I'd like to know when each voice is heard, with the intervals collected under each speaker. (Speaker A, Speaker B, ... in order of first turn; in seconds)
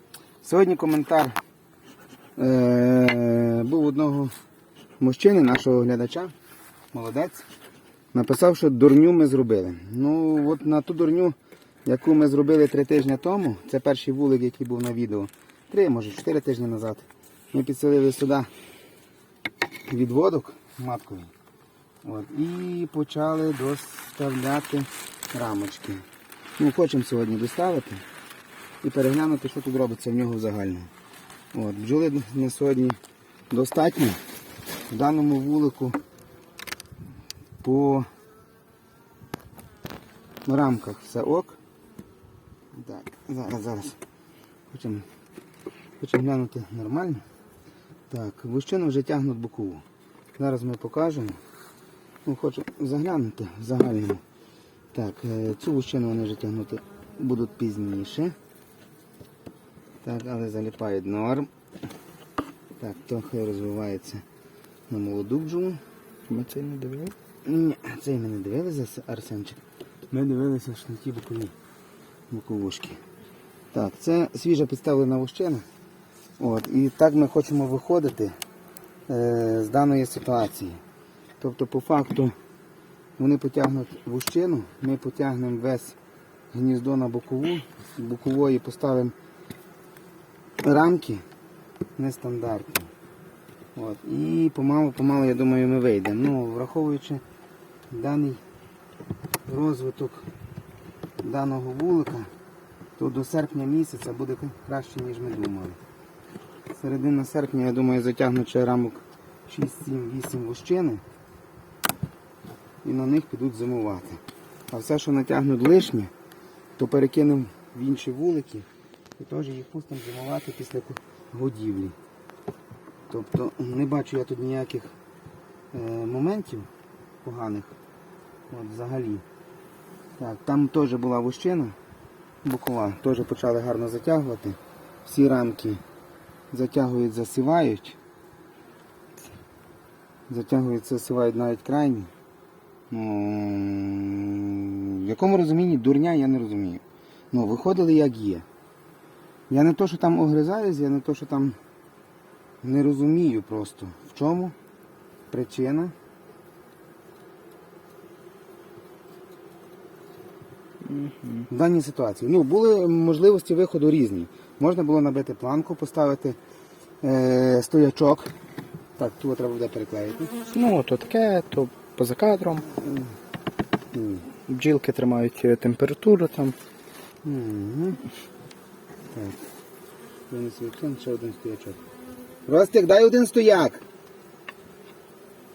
Speaker A: 0.4-1.3, 2.4-4.3, 5.0-6.3, 6.9-7.4, 8.1-11.3, 11.8-18.5, 19.9-21.3, 22.0-26.0, 26.6-28.0, 28.8-30.9, 31.5-33.0, 33.5-34.2, 34.9-36.0, 37.6-38.0, 40.5-41.6, 42.7-44.0, 44.7-45.0, 46.0-47.2, 48.1-49.8, 50.3-51.4, 52.2-54.2, 54.9-58.3, 60.0-61.5, 62.8-64.2, 64.9-65.8, 67.4-69.6, 70.1-71.5, 72.3-73.0, 73.7-75.6, 76.4-78.3, 79.1-80.8, 81.4-82.3, 83.2-86.0, 86.5-89.1, 90.6-91.2, 92.0-92.9, 93.7-97.2, 97.9-98.4, 99.5-100.3, 101.2-102.3, 103.0-105.8, 106.8-111.0, 112.8-116.1, 116.8-121.9, 123.1-124.9, 125.7-126.7, 127.2-127.7, 128.5-129.2, 130.2-131.8, 132.4-135.8, 136.5-138.0, 140.3-142.1, 142.9-148.4, 149.5-151.6, 152.6-154.5, 155.3-155.9, 161.5-166.4, 167.0-168.3, 169.0-170.3, 172.8-173.1, 173.9-174.3, 177.2-178.0, 179.1-179.4, 180.3-181.8, 182.4-183.8
Speaker B: 66.3-67.1, 160.8-161.5, 170.5-172.7, 174.5-176.6